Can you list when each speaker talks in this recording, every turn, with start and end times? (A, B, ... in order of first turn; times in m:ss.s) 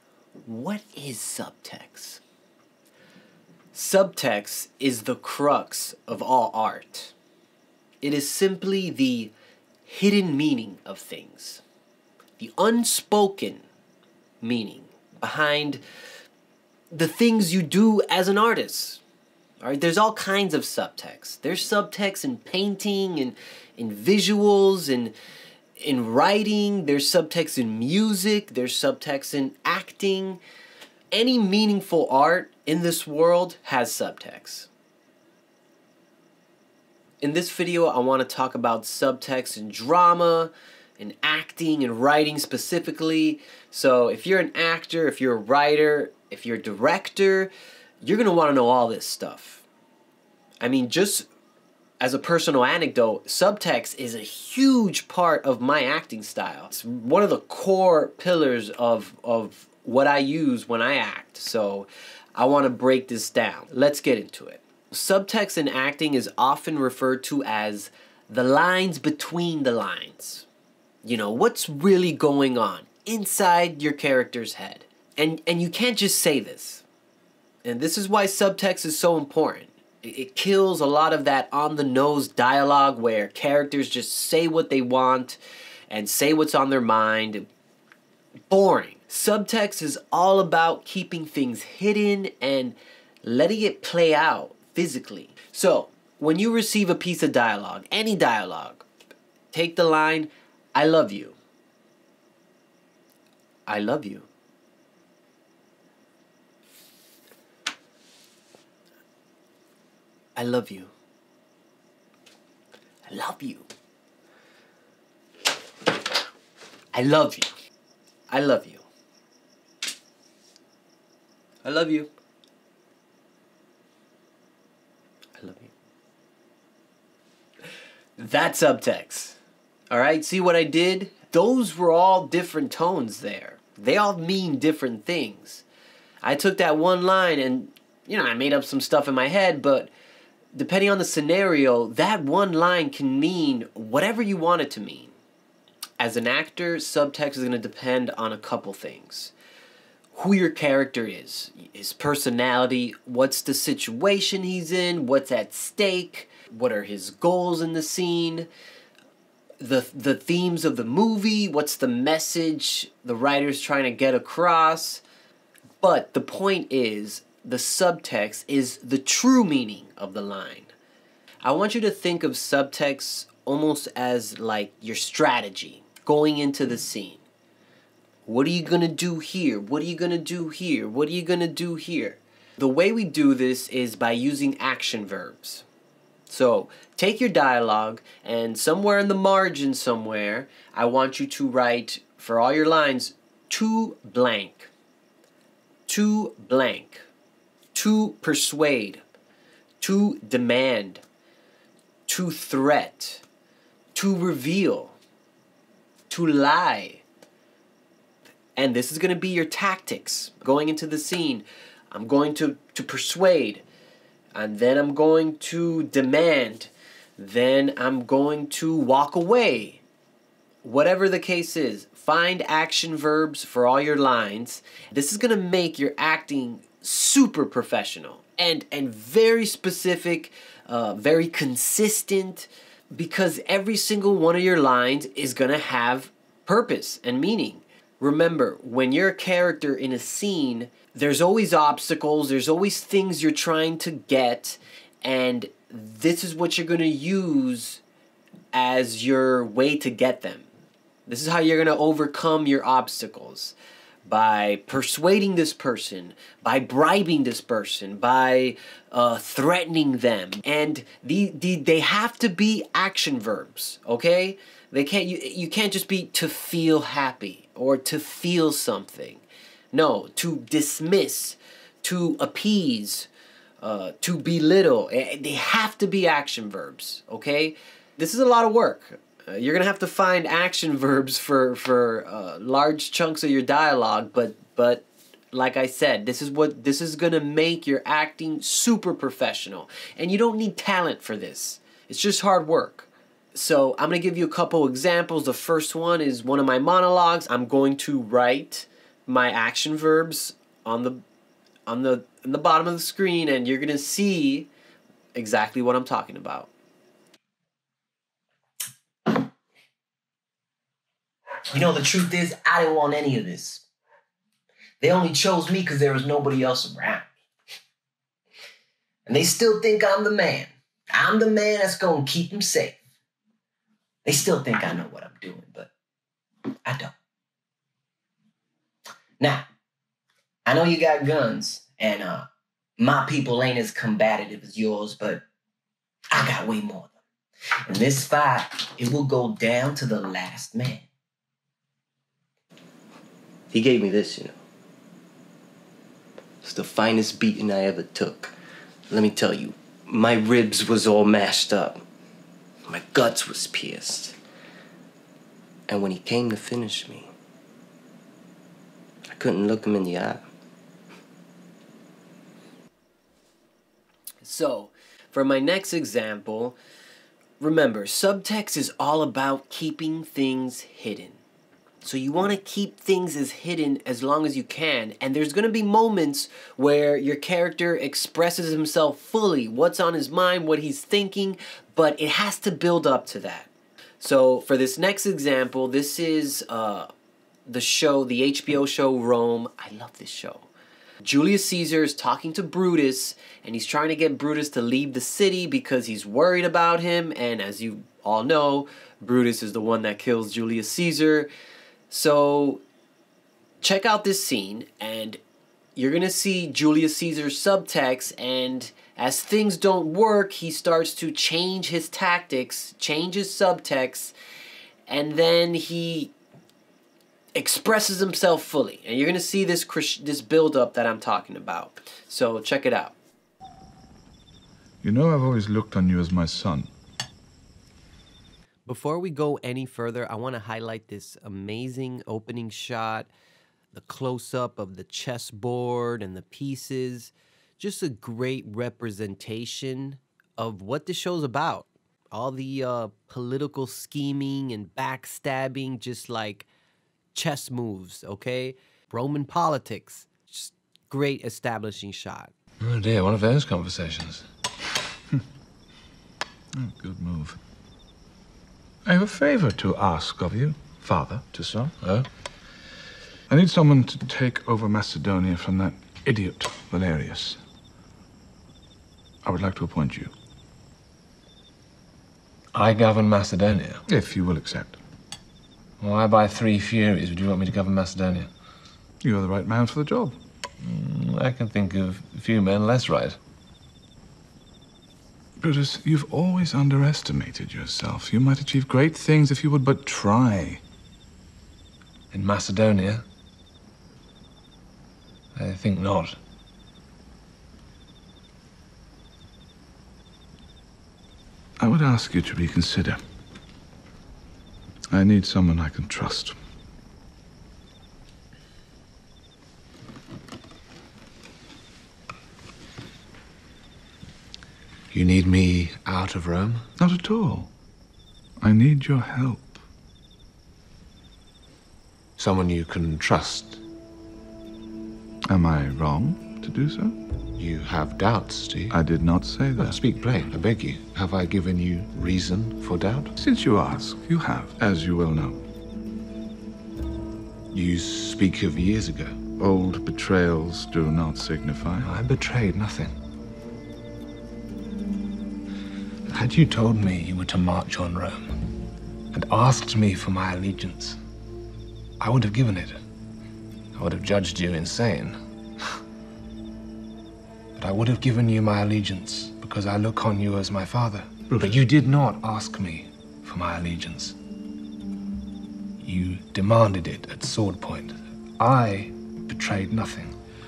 0:00.4-0:02.2 A
0:03.7-0:07.1 A
0:08.0-0:09.3 A
0:09.8-0:11.6 A
0:12.4-0:13.7 A
0:14.4-0:15.8 A
0:16.9-0:19.0 A
0:19.6-0:25.2 A
0:25.8-0:30.4 A
0:31.1-0:34.7 A
0:37.2-0:47.5 A
0:48.0-0:49.6 A
0:50.6-0:51.3 A
0:52.0-1:10.5 A
1:11.0-1:16.8 A
1:17.6-1:25.4 A
1:25.9-1:27.5 A
1:28.5-1:38.9 A
1:39.5-1:41.4 A
1:43.7-1:44.3 A
1:50.4-1:50.9 A
1:53.1-1:53.7 A
1:56.9-1:57.5 A
1:58.3-1:58.9 A
2:01.6-2:02.1 A
2:05.4-2:05.7 A
2:08.2-2:09.4 A
2:09.9-2:15.6 A
2:16.2-2:19.9 A
2:20.5-2:25.2 A
2:26.0-2:29.3 A
2:30.1-2:38.5 A
2:39.6-2:45.0 A
2:45.8-2:50.7 A
2:51.4-2:57.2 A
2:58.3-3:05.6 A
3:06.3-3:14.7 A
3:15.9-3:17.1 A
3:17.7-3:19.0 A
3:19.8-3:21.0 A
3:22.1-3:23.2 A
3:24.0-3:25.0 A
3:26.1-3:27.0 A
3:28.6-3:33.6 A
3:34.4-3:39.8 A
3:40.6-4:07.8 A
4:08.5-4:10.5 A
4:11.1-4:33.1 A
4:33.6-5:01.0 A
5:01.7-5:04.5 A
5:05.2-5:06.5 A
5:11.5-5:13.6 B
5:14.8-5:17.1 B
5:19.1-5:22.8 B
5:24.1-5:25.7 B
5:30.5-5:32.2 B
5:32.8-5:35.2 B
5:36.1-5:36.9 B
5:37.7-5:40.8 B
5:43.5-5:44.4 C
5:46.4-5:48.3 C
5:48.9-5:51.8 C
5:52.7-5:54.2 C
5:55.7-5:57.1 C
5:59.1-6:00.2 C
6:04.2-6:06.6 A
6:07.4-6:11.2 A
6:11.8-6:26.9 A
6:27.5-6:30.5 A
6:31.0-6:41.3 A
6:41.9-6:42.6 A
6:43.6-6:45.2 A
6:45.8-6:54.2 A
6:54.9-6:56.1 A
6:57.4-7:03.0 A
7:04.8-7:06.7 D
7:08.7-7:13.1 A
7:13.7-7:26.5 A
7:27.1-7:32.3 A
7:32.6-7:34.2 E
7:36.6-7:37.4 D
7:38.9-7:41.7 D
7:41.8-7:42.1 E
7:43.3-7:47.4 D
7:49.2-7:50.1 D
7:52.5-7:53.8 E
7:53.9-7:54.8 D
7:55.8-7:58.3 E
7:59.0-8:00.2 D
8:00.6-8:03.2 E
8:05.4-8:10.6 D
8:12.1-8:13.0 E
8:15.4-8:16.2 E
8:21.6-8:23.0 D
8:24.9-8:26.4 D
8:34.9-8:36.6 E
8:36.8-8:37.5 D
8:38.4-8:39.6 D
8:42.2-8:43.6 E
8:45.3-8:47.0 D
8:47.4-8:48.8 E
8:48.7-8:49.8 D
8:49.6-8:53.1 E
8:53.2-8:55.4 D
8:57.5-8:59.2 E
8:59.4-9:02.0 D
9:01.8-9:02.9 E
9:06.1-9:08.4 E
9:09.1-9:11.0 E
9:12.0-9:12.8 E
9:13.8-9:15.2 E
9:17.6-9:24.2 E
9:25.8-9:30.1 E